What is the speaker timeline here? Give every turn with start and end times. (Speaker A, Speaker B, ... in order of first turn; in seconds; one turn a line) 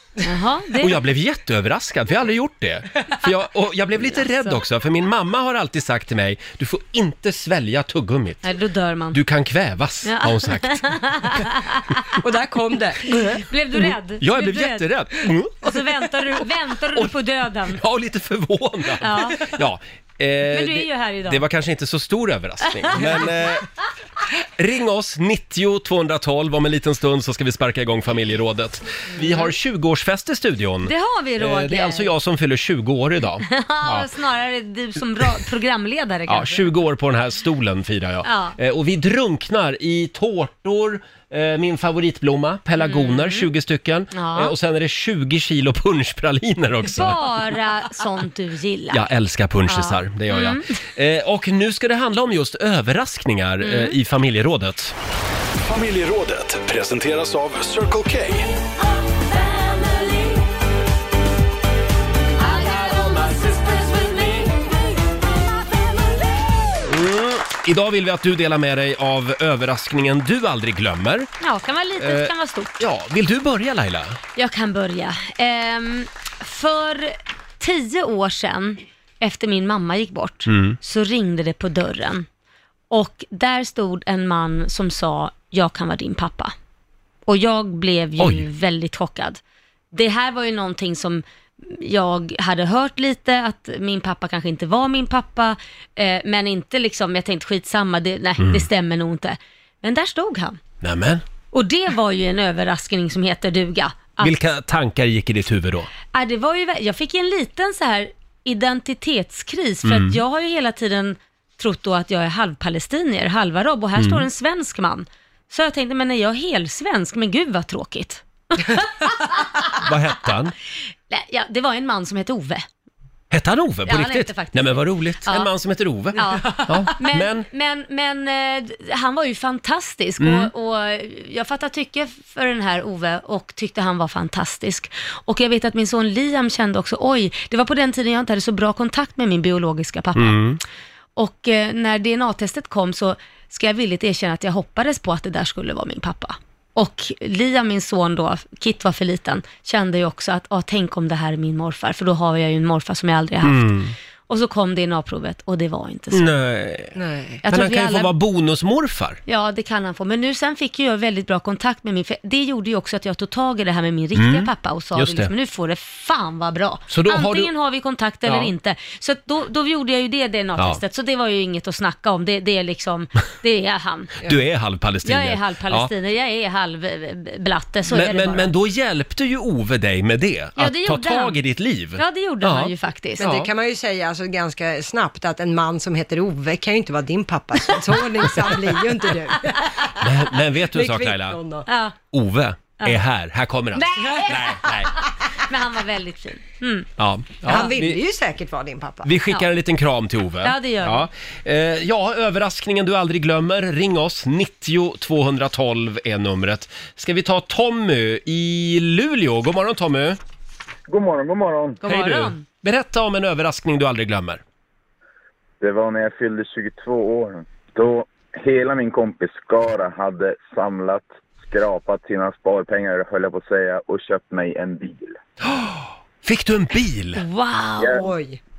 Speaker A: 0.2-1.0
Speaker B: 0.8-8.5
Speaker A: 4.0-4.6
Speaker A: 8.4-9.2
Speaker B: 9.1-11.0
Speaker A: 10.1-12.1
Speaker C: 12.2-13.1
Speaker A: 13.3-14.9
Speaker B: 13.7-15.7
Speaker A: 15.5-17.8
Speaker B: 17.7-23.7
Speaker A: 19.0-19.5
Speaker A: 20.5-21.4
Speaker B: 24.6-34.1
Speaker A: 29.2-29.5
Speaker A: 30.9-32.1
Speaker A: 33.5-36.6
Speaker B: 36.3-47.2
Speaker A: 38.2-38.6
Speaker A: 42.8-43.5
Speaker A: 44.1-44.5
Speaker A: 46.9-49.0
Speaker B: 48.9-54.9
Speaker A: 49.7-50.7
Speaker A: 53.6-54.0
Speaker D: 55.7-58.5
Speaker A: 62.4-64.5
Speaker B: 66.9-71.3
Speaker A: 71.4-72.8
Speaker B: 72.0-74.2
Speaker A: 74.4-82.3
Speaker B: 80.5-80.8
Speaker A: 82.9-86.5
Speaker A: 87.3-89.4
Speaker B: 88.2-88.5
Speaker A: 89.9-100.6
Speaker B: 98.4-98.7
Speaker B: 100.8-101.2
Speaker A: 101.5-104.3
Speaker B: 104.2-105.9
Speaker A: 106.1-119.8
Speaker B: 109.8-110.2
Speaker B: 114.0-114.3
Speaker B: 119.8-120.5
Speaker A: 121.1-122.7
Speaker B: 123.3-127.5
Speaker A: 123.9-125.5
Speaker A: 126.2-140.4
Speaker B: 130.2-130.5
Speaker B: 140.2-140.6
Speaker A: 141.2-156.3
Speaker B: 153.4-153.9
Speaker B: 156.1-159.2
Speaker C: 156.9-157.4
Speaker A: 157.4-158.1
Speaker A: 159.3-174.1
Speaker B: 164.2-165.3
Speaker B: 166.9-167.5
Speaker B: 168.2-168.5
Speaker B: 170.6-170.8
Speaker B: 174.2-175.9
Speaker A: 175.1-178.5
Speaker B: 177.9-183.5
Speaker A: 180.6-181.4
Speaker A: 182.0-183.2
Speaker C: 183.2-189.8
Speaker B: 190.0-191.4
Speaker C: 190.7-191.7
Speaker A: 191.7-191.9
Speaker B: 192.1-194.9
Speaker A: 193.7-196.9
Speaker B: 197.0-198.0
Speaker C: 197.5-199.1
Speaker B: 199.0-210.2
Speaker A: 200.4-201.1
Speaker E: 210.9-211.8
Speaker A: 211.8-212.4
Speaker B: 211.8-214.4
Speaker E: 215.6-225.2
Speaker B: 225.5-227.2
Speaker A: 227.2-228.0
Speaker E: 227.8-228.1
Speaker C: 227.9-228.4